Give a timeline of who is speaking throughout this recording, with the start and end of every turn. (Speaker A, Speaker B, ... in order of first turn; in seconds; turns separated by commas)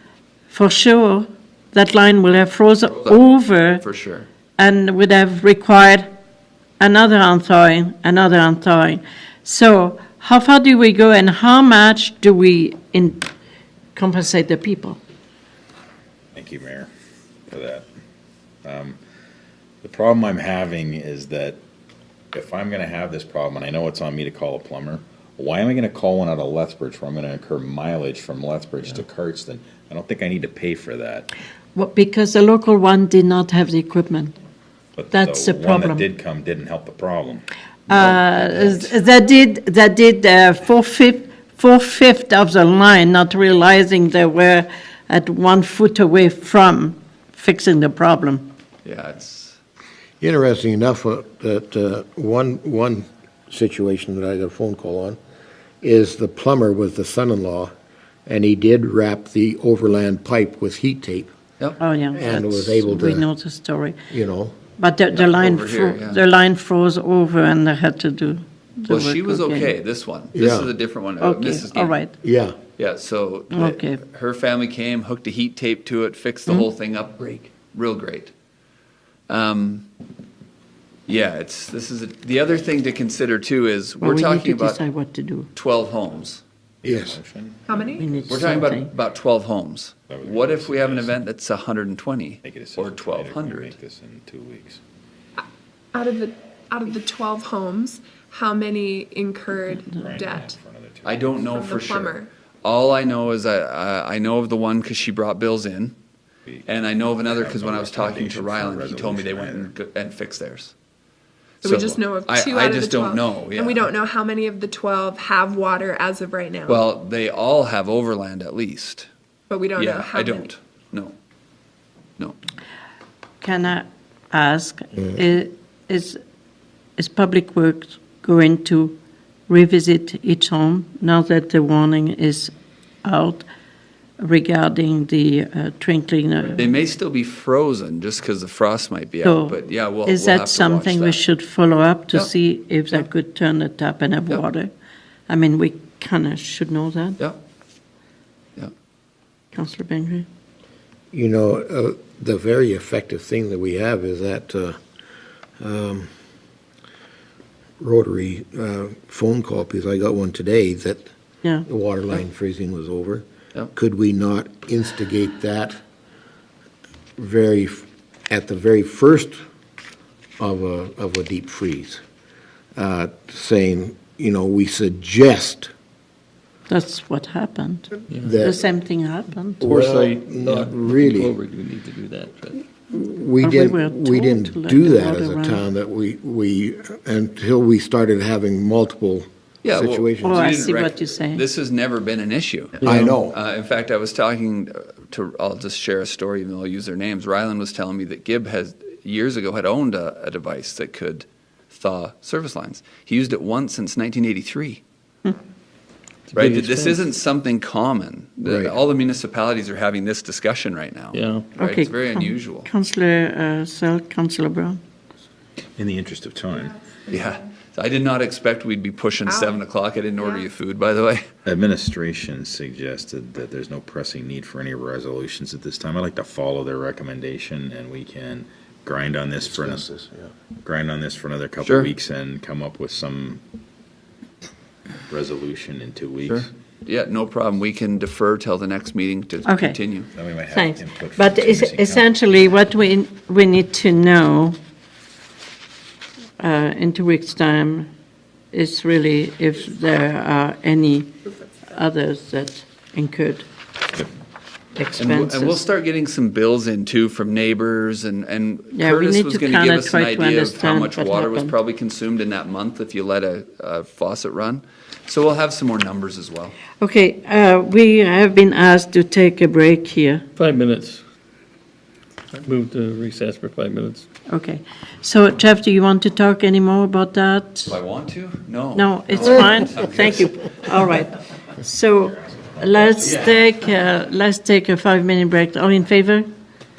Speaker A: 0.5-3.8, Speaker B: 3.0-4.2, Speaker A: 4.6-6.1, Speaker A: 6.8-13.3, Speaker A: 13.9-15.0, Speaker C: 16.3-16.9, Speaker C: 17.5-17.9, Speaker C: 18.6-19.0, Speaker C: 19.8-21.6, Speaker C: 22.3-31.3, Speaker A: 31.7-34.3, Speaker C: 35.0-38.9, Speaker A: 35.1-36.0, Speaker A: 37.9-48.5, Speaker B: 48.8-49.6, Speaker D: 50.2-55.2, Speaker D: 55.8-57.7, Speaker D: 58.2-61.3, Speaker A: 61.8-64.0, Speaker D: 62.1-63.2, Speaker D: 64.1-64.6, Speaker A: 64.8-69.7, Speaker B: 65.1-66.2, Speaker B: 68.9-72.0, Speaker D: 70.3-70.7, Speaker A: 71.2-72.1, Speaker D: 72.2-72.5, Speaker B: 72.8-78.3, Speaker A: 73.5-74.0, Speaker B: 79.3-79.9, Speaker B: 81.1-84.8, Speaker A: 84.0-85.5, Speaker B: 85.5-86.4, Speaker C: 86.8-87.8, Speaker D: 86.8-87.2, Speaker E: 87.7-88.2, Speaker A: 88.0-88.9, Speaker B: 88.3-93.8, Speaker C: 90.1-91.2, Speaker C: 92.4-94.8, Speaker E: 95.9-100.5, Speaker C: 99.9-101.3, Speaker B: 101.0-105.9, Speaker E: 101.4-102.3, Speaker B: 106.7-110.7, Speaker C: 107.3-109.7, Speaker E: 111.6-116.9, Speaker B: 111.6-113.9, Speaker B: 116.7-119.1, Speaker E: 119.5-120.5, Speaker B: 119.8-121.1, Speaker A: 123.4-126.2, Speaker A: 127.0-129.0, Speaker A: 129.5-132.5, Speaker A: 133.0-133.4, Speaker A: 134.2-136.7, Speaker B: 136.5-141.2, Speaker A: 139.2-144.7, Speaker A: 145.3-147.2, Speaker A: 149.5-150.3, Speaker D: 151.1-154.8, Speaker D: 155.6-156.1, Speaker D: 157.8-161.1, Speaker D: 161.7-165.8, Speaker D: 167.2-169.4, Speaker D: 170.4-172.0, Speaker D: 172.8-175.7, Speaker A: 176.7-179.6, Speaker F: 178.1-178.4, Speaker D: 178.1-178.6, Speaker F: 179.6-182.6, Speaker D: 179.6-181.3, Speaker D: 182.8-190.6, Speaker A: 183.4-185.6, Speaker B: 189.6-204.8, Speaker A: 190.2-191.4, Speaker D: 192.8-193.3, Speaker F: 206.3-207.0, Speaker B: 206.3-212.7, Speaker D: 208.4-208.7, Speaker F: 211.1-211.5, Speaker A: 211.6-214.8, Speaker C: 215.8-216.7, Speaker E: 216.5-217.4, Speaker B: 217.1-221.2, Speaker E: 219.2-219.7, Speaker E: 220.2-220.5, Speaker C: 221.4-230.0, Speaker D: 229.5-230.1, Speaker C: 230.6-233.4, Speaker B: 231.6-231.9, Speaker C: 235.1-236.5, Speaker B: 236.2-240.1, Speaker A: 239.4-239.8, Speaker C: 240.1-242.4, Speaker A: 240.5-244.6, Speaker A: 246.4-247.9, Speaker A: 248.5-251.1, Speaker A: 251.7-253.4, Speaker A: 254.8-255.6, Speaker B: 255.0-266.5, Speaker A: 258.7-261.5, Speaker A: 266.8-270.2, Speaker F: 270.4-271.0, Speaker F: 272.3-274.1, Speaker A: 274.3-277.7, Speaker B: 277.7-280.3, Speaker A: 278.7-286.2